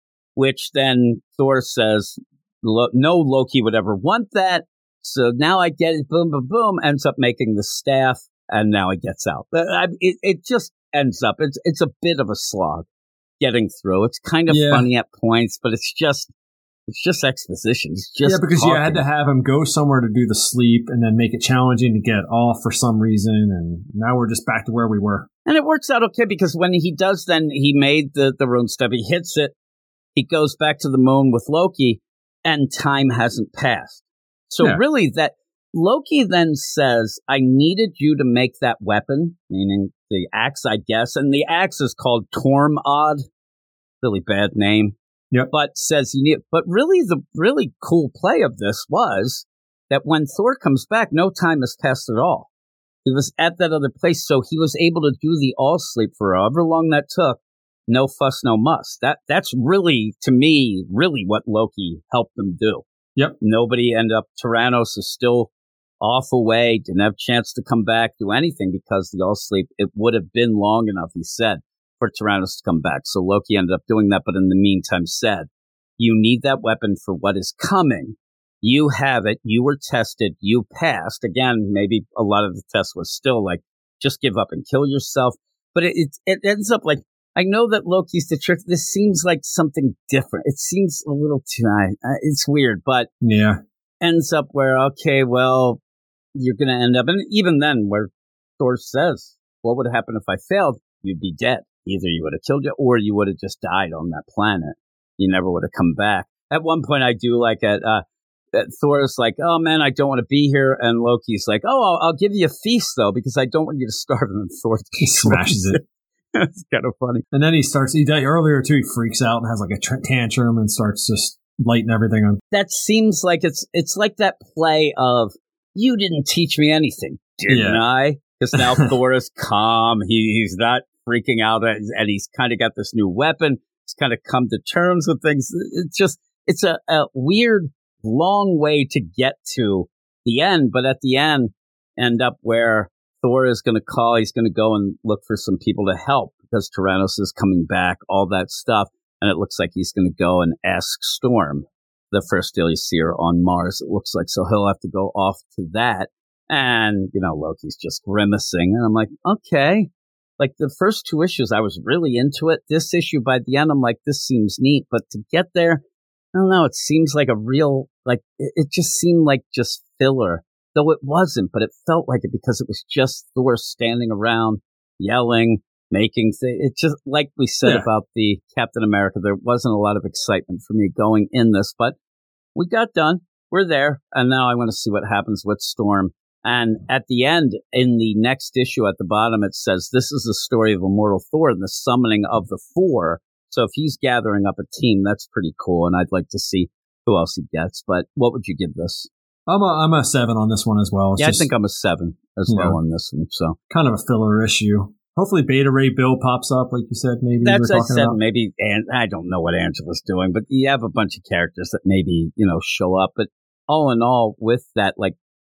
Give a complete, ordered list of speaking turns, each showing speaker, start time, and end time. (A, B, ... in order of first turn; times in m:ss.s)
0:00.4-0:12.8 A
0:13.4-0:16.3 A
0:14.5-0:14.9 B
0:16.9-0:19.0 A
0:18.2-0:25.3 B
0:25.4-0:29.5 A
0:30.2-0:43.2 A
0:44.0-0:45.0 A
0:45.5-0:52.5 A
0:53.0-1:02.8 A
1:03.4-1:05.5 A
1:06.0-1:15.5 A
1:16.0-1:33.1 A
1:33.2-1:33.6 B
1:34.0-1:35.8 A
1:36.3-1:55.8 A
1:55.0-1:55.8 B
1:56.3-1:57.2 A
1:57.3-2:02.4 B
2:02.5-2:45.8 A
2:07.5-2:07.8 B
2:08.6-2:08.9 B
2:46.3-3:02.0 A
2:57.6-2:57.9 B
3:02.5-3:19.1 A
3:19.5-3:21.5 B
3:21.2-3:23.6 A
3:22.5-3:22.8 B
3:23.7-3:28.2 B
3:27.4-3:35.2 A